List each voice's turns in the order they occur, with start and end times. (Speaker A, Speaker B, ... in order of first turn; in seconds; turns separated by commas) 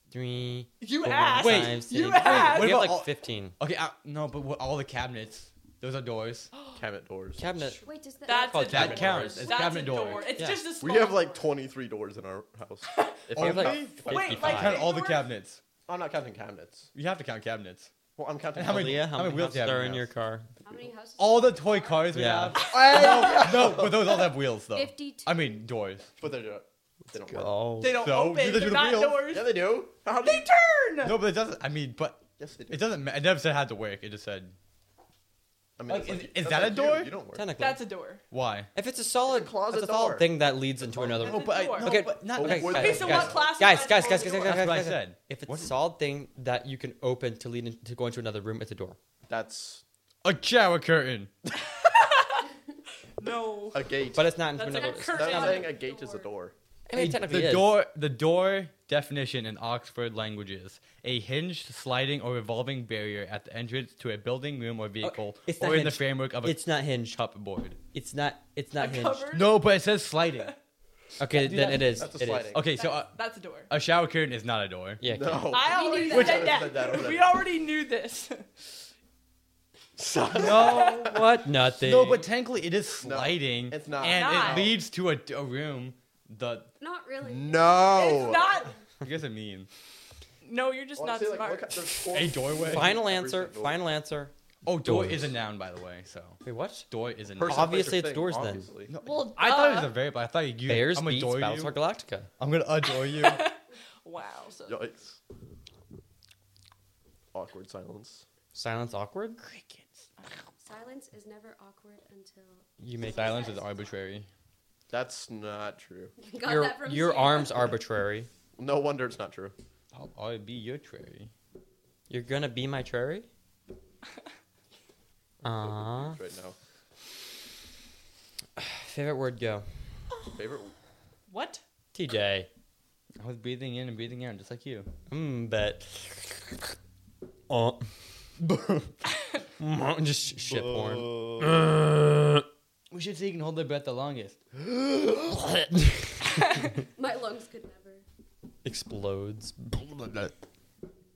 Speaker A: 0.1-3.6, Speaker B: 0.8-2.8, Speaker C: 1.4-6.5, Speaker B: 6.5-6.8, Speaker D: 6.7-7.8, Speaker A: 7.4-9.4, Speaker E: 7.8-10.3, Speaker B: 8.2-11.5, Speaker C: 8.7-10.3, Speaker A: 10.4-10.6, Speaker D: 10.7-14.4, Speaker C: 13.3-15.6, Speaker A: 13.4-14.8, Speaker B: 14.0-15.3, Speaker D: 15.9-16.9, Speaker C: 16.9-17.9, Speaker D: 18.2-19.1, Speaker C: 18.6-20.1, Speaker A: 18.6-20.5, Speaker E: 20.6-22.3, Speaker C: 21.2-26.1, Speaker A: 22.1-22.7, Speaker B: 22.6-23.7, Speaker D: 22.7-24.3, Speaker E: 24.6-25.5, Speaker D: 26.2-27.5, Speaker A: 27.1-28.1, Speaker C: 27.8-29.3, Speaker B: 27.8-29.7, Speaker D: 29.3-30.5, Speaker B: 30.2-31.2, Speaker C: 31.0-34.5, Speaker D: 32.4-32.9, Speaker D: 35.8-37.5, Speaker C: 35.9-37.1, Speaker A: 37.3-37.8, Speaker B: 37.6-38.2, Speaker C: 38.3-38.7, Speaker A: 38.8-49.0, Speaker D: 39.3-41.7, Speaker B: 41.2-42.0, Speaker C: 41.2-43.4, Speaker D: 42.3-43.7, Speaker B: 42.7-44.6, Speaker C: 44.1-45.7, Speaker D: 49.3-49.8, Speaker C: 50.2-51.3, Speaker B: 51.8-52.5, Speaker B: 53.2-55.8, Speaker D: 53.7-54.4, Speaker A: 54.1-55.6, Speaker E: 54.7-56.3, Speaker D: 55.1-56.5, Speaker A: 56.9-57.8, Speaker C: 56.9-67.8, Speaker A: 65.0-67.2, Speaker A: 67.9-69.3, Speaker B: 68.8-69.7, Speaker C: 69.3-70.5, Speaker A: 71.2-72.5, Speaker C: 71.3-73.2, Speaker D: 71.6-72.7, Speaker B: 72.7-73.7, Speaker C: 73.7-75.0, Speaker A: 75.0-75.6, Speaker D: 75.0-77.4, Speaker B: 75.5-78.7, Speaker E: 75.7-76.7, Speaker D: 80.0-81.1, Speaker C: 80.3-86.7, Speaker B: 80.4-81.3, Speaker A: 81.4-82.3, Speaker D: 83.0-84.8, Speaker B: 84.0-84.7, Speaker E: 86.8-88.2, Speaker D: 87.2-88.7, Speaker B: 87.9-88.8, Speaker C: 89.0-89.7, Speaker B: 90.4-91.9, Speaker D: 91.0-93.9, Speaker C: 92.1-93.0, Speaker A: 92.7-95.3, Speaker C: 94.7-97.8, Speaker A: 96.4-96.9, Speaker D: 97.3-98.9, Speaker A: 97.4-98.7, Speaker C: 98.9-101.8, Speaker B: 99.0-100.0, Speaker A: 100.7-102.3, Speaker C: 102.4-103.4, Speaker B: 103.0-104.8, Speaker D: 104.7-105.2, Speaker D: 107.3-108.2, Speaker A: 108.5-109.4, Speaker C: 109.4-109.8, Speaker E: 110.6-113.8, Speaker A: 112.8-113.4, Speaker C: 113.0-114.3, Speaker D: 114.9-116.2, Speaker E: 116.2-117.8, Speaker A: 116.4-118.3, Speaker D: 118.6-119.5, Speaker C: 119.9-121.3, Speaker A: 122.1-123.3, Speaker A: 125.4-126.2, Speaker D: 125.5-126.6, Speaker A: 128.6-129.9, Speaker D: 130.3-130.7, Speaker B: 131.3-131.6, Speaker A: 131.9-132.5, Speaker C: 133.2-134.9, Speaker A: 135.1-136.7, Speaker A: 137.5-137.9, Speaker C: 138.4-138.8, Speaker A: 139.6-142.4, Speaker C: 140.5-141.6, Speaker C: 142.9-144.6, Speaker A: 145.4-146.0, Speaker E: 146.9-148.0, Speaker A: 148.6-150.3